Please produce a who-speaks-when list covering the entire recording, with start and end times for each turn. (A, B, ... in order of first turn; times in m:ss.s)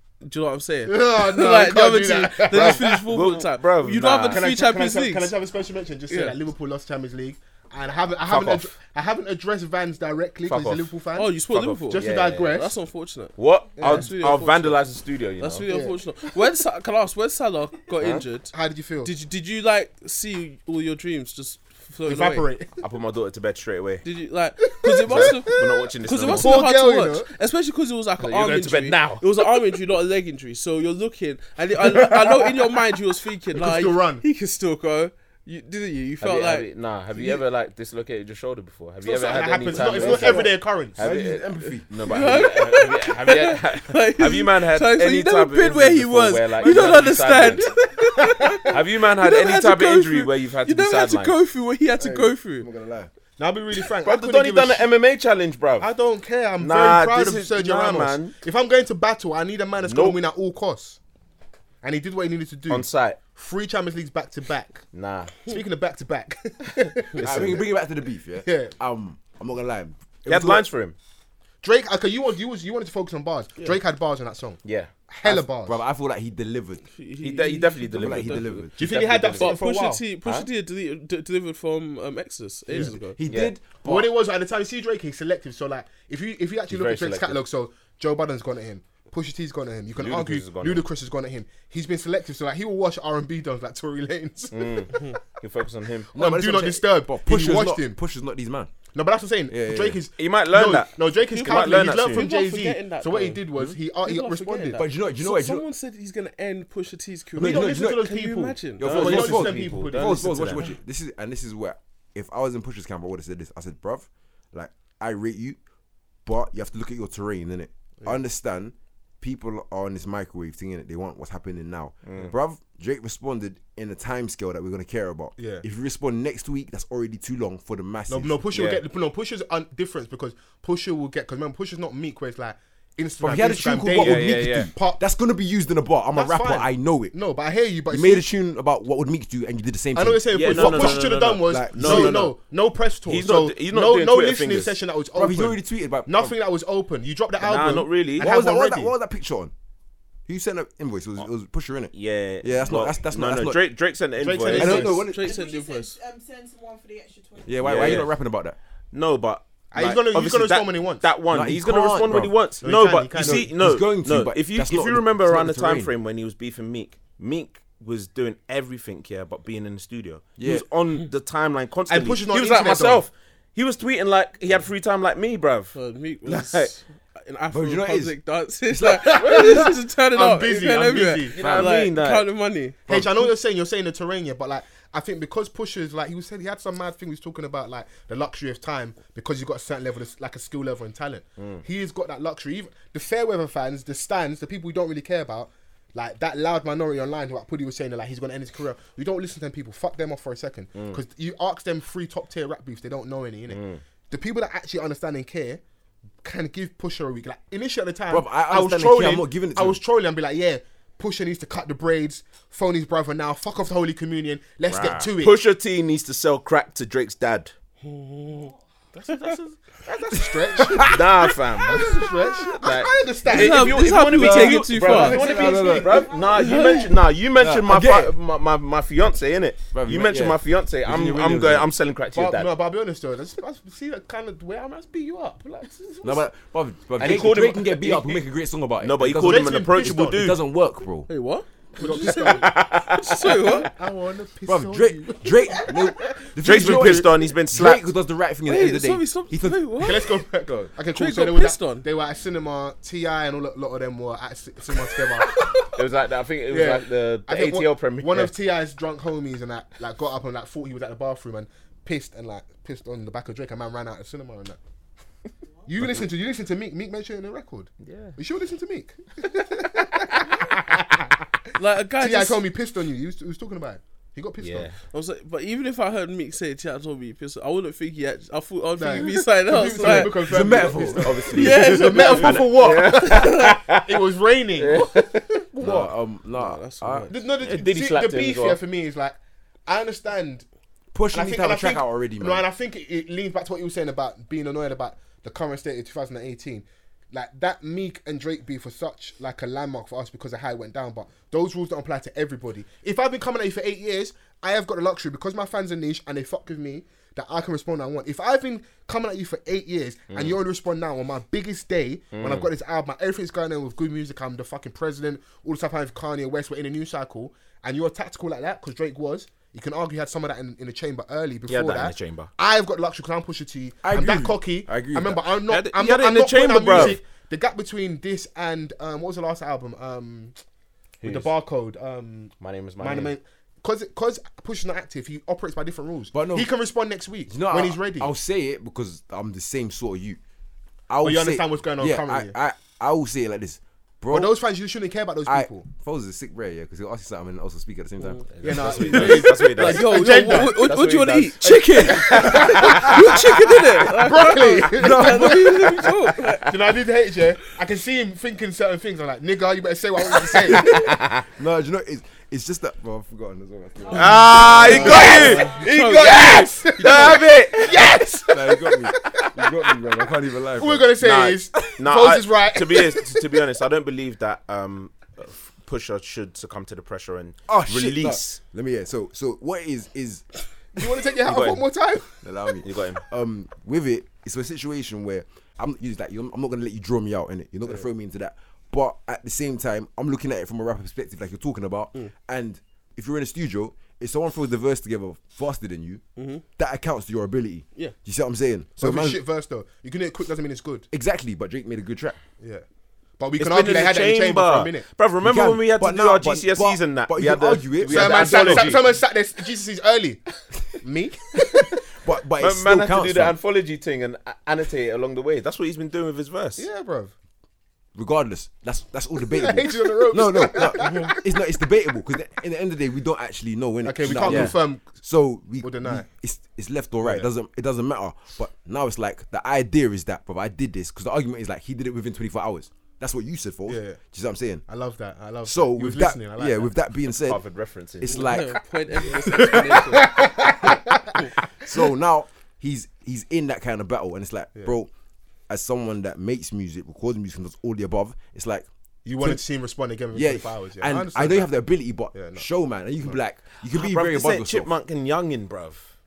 0:00.2-0:05.3 A
0:00.9-0:03.0 B
0:02.5-0:04.4 C
0:04.3-0:11.3 B
0:06.1-0:06.4 A
0:08.2-0:08.6 C
0:10.5-0:10.9 C
0:11.1-0:14.8 A
0:11.5-0:12.5 C
0:11.9-0:12.7 B
0:13.4-0:15.6 C
0:13.8-0:14.1 B
0:15.4-0:22.5 A
0:15.7-0:16.0 B
0:18.0-0:18.2 C
0:18.5-0:19.1 B
0:22.0-0:22.7 B
0:22.8-0:24.0 C
0:24.0-0:36.7 A
0:24.8-0:25.7 B
0:25.1-0:26.6 C
0:26.2-0:27.3 B
0:28.2-0:29.2 C
0:32.0-0:32.3 B
0:33.5-0:34.2 B
0:36.2-0:47.7 C
0:39.0-0:41.1 B
0:39.7-0:40.4 A
0:41.0-0:42.4 D
0:42.0-0:52.7 A
0:48.1-0:48.6 B
0:48.7-0:51.4 C
0:52.0-0:53.1 D
0:53.4-0:54.9 B
0:54.0-0:55.9 C
0:55.8-1:01.0 B
0:56.6-0:58.4 C
0:59.8-1:00.2 C
1:01.8-1:04.8 B
1:02.7-1:03.2 C
1:04.9-1:05.5 C
1:05.4-1:07.7 B
1:07.1-1:07.6 C
1:07.2-1:10.6 D
1:08.4-1:08.7 B
1:10.3-1:11.0 C
1:11.6-1:15.8 B
1:14.6-1:14.9 C
1:15.2-1:16.8 D
1:16.9-1:18.6 A
1:17.2-1:19.6 C
1:17.9-1:18.7 D
1:18.8-1:20.0 B
1:19.4-1:23.2 A
1:22.8-1:24.1 D
1:23.3-1:23.6 C
1:23.8-1:35.0 B
1:26.7-1:27.4 C
1:30.0-1:30.8 C
1:34.5-1:36.1 C
1:36.1-1:38.0 B
1:36.1-1:38.7 D
1:38.9-1:44.8 B
1:39.5-1:40.0 D
1:40.2-1:42.3 C
1:41.3-1:43.4 A
1:44.0-1:48.8 A
1:44.7-1:45.6 D
1:47.4-1:48.0 D
1:47.4-1:50.6 B
1:48.8-1:55.6 D
1:48.8-1:50.6 C
1:56.2-2:08.5 D
2:02.0-2:02.3 C
2:05.4-2:05.6 B
2:08.1-2:15.0 B
2:08.5-2:08.8 C
2:13.2-2:17.1 D
2:13.9-2:14.7 C
2:16.1-2:18.2 B
2:17.9-2:22.3 D
2:19.9-2:28.9 B
2:20.3-2:22.4 C
2:23.1-2:24.7 C
2:25.1-2:26.3 D
2:27.4-2:28.3 C
2:28.2-2:29.5 D
2:30.3-2:33.6 D
2:31.9-2:35.0 C
2:34.2-2:35.1 B
2:34.5-2:35.4 D
2:34.6-2:36.0 A
2:35.2-2:37.7 E
2:37.4-2:38.6 D
2:37.6-2:38.1 C
2:38.9-2:56.7 C
2:39.7-2:41.0 B
2:41.3-2:42.4 D
2:42.6-2:43.5 B
2:43.1-2:45.9 D
2:50.4-2:50.6 D
2:51.9-2:53.0 B
2:55.7-3:02.8 A
2:57.5-2:58.2 D
2:58.7-2:59.7 D
2:59.0-3:01.4 B
3:01.3-3:02.3 C
3:01.4-3:01.7 D
3:02.9-3:25.6 B
3:11.4-3:11.6 C
3:23.5-3:23.8 C
3:26.2-3:35.4 B
3:28.1-3:29.8 D
3:34.7-3:37.5 C
3:37.8-3:38.5 A
3:38.9-3:43.9 B
3:40.6-3:41.0 D
3:40.9-3:52.5 C
3:43.3-3:45.2 A
3:44.1-3:46.1 D
3:44.8-3:46.0 B
3:45.1-3:46.7 E
3:46.3-3:46.9 A
3:47.4-3:48.1 D
3:49.7-3:51.7 D
3:52.1-3:56.2 B
3:56.0-4:01.1 D
3:57.0-3:58.2 C
3:58.8-4:00.4 C
3:59.0-4:00.2 B
4:01.1-4:03.7 A
4:01.8-4:02.6 B
4:02.0-4:03.6 C
4:03.2-4:07.0 B
4:04.4-4:10.7 D
4:06.4-4:07.8 C
4:08.4-4:10.1 A
4:09.8-4:15.7 B
4:10.9-4:11.8 A
4:15.6-4:18.3 C
4:16.5-4:24.6 B
4:25.7-4:31.1 B
4:27.8-4:28.2 C
4:30.2-4:30.6 C
4:31.6-4:32.4 A
4:32.0-4:34.7 B
4:34.4-4:34.8 C
4:34.9-4:40.6 A
4:38.8-4:45.9 B
4:39.8-4:42.3 D
4:41.3-4:43.6 A
4:42.0-4:44.0 C
4:44.6-4:45.4 C
4:45.6-4:47.1 D
4:46.3-4:47.2 A
4:47.1-4:50.4 B
4:47.4-4:48.6 C
4:50.9-4:52.4 D
4:51.1-5:30.3 B
5:10.1-5:10.4 C
5:12.1-5:12.5 C
5:21.5-5:22.3 C
5:23.8-5:25.2 D
5:25.5-5:27.0 C
5:26.7-5:27.0 D
5:31.0-5:31.3 C
5:31.0-5:38.1 B
5:32.4-5:33.1 C
5:36.1-5:36.5 D
5:37.3-5:40.2 D
5:40.9-5:44.3 D
5:41.0-5:42.3 B
5:44.1-5:45.6 B
5:45.2-5:49.2 D
5:48.4-5:53.0 C
5:48.4-5:50.7 B
5:48.7-5:56.5 A
5:51.4-5:52.4 D
5:51.7-5:53.2 B
5:53.9-5:55.7 B
5:54.7-5:55.7 D
5:56.4-6:00.9 B
6:00.4-6:05.4 D
6:00.4-6:01.2 C
6:03.9-6:04.2 E
6:03.9-6:08.4 C
6:04.6-6:06.6 A
6:04.6-6:09.5 B
6:04.7-6:05.2 E
6:08.3-6:11.0 D
6:10.6-6:13.4 B
6:11.0-6:18.4 C
6:17.5-6:20.2 D
6:20.7-6:22.5 B
6:21.2-6:21.6 C
6:22.2-6:36.0 D
6:22.6-6:23.0 C
6:36.2-6:36.4 A
6:36.6-6:39.2 D
6:38.8-6:40.9 B
6:40.9-6:42.2 D
6:42.4-6:42.6 B
6:43.2-6:44.9 B
6:43.4-6:48.8 C
6:45.2-6:48.8 D
6:47.9-6:51.8 B
6:51.9-6:53.4 D
6:52.4-6:56.7 C
6:56.6-6:57.1 B
6:57.9-7:14.6 D
6:59.2-7:01.3 B
7:03.8-7:04.9 B
7:04.2-7:04.5 C
7:05.6-7:06.0 B
7:07.0-7:07.3 B
7:13.7-7:14.0 B
7:14.7-7:16.7 B
7:15.4-7:17.4 D
7:17.2-7:18.3 C
7:18.0-7:18.6 D
7:18.2-7:20.2 A
7:19.4-7:21.3 B
7:21.6-7:24.9 D
7:25.5-7:28.6 D
7:29.0-7:31.5 B
7:30.1-7:34.7 D
7:32.1-7:32.5 B
7:33.7-7:35.9 C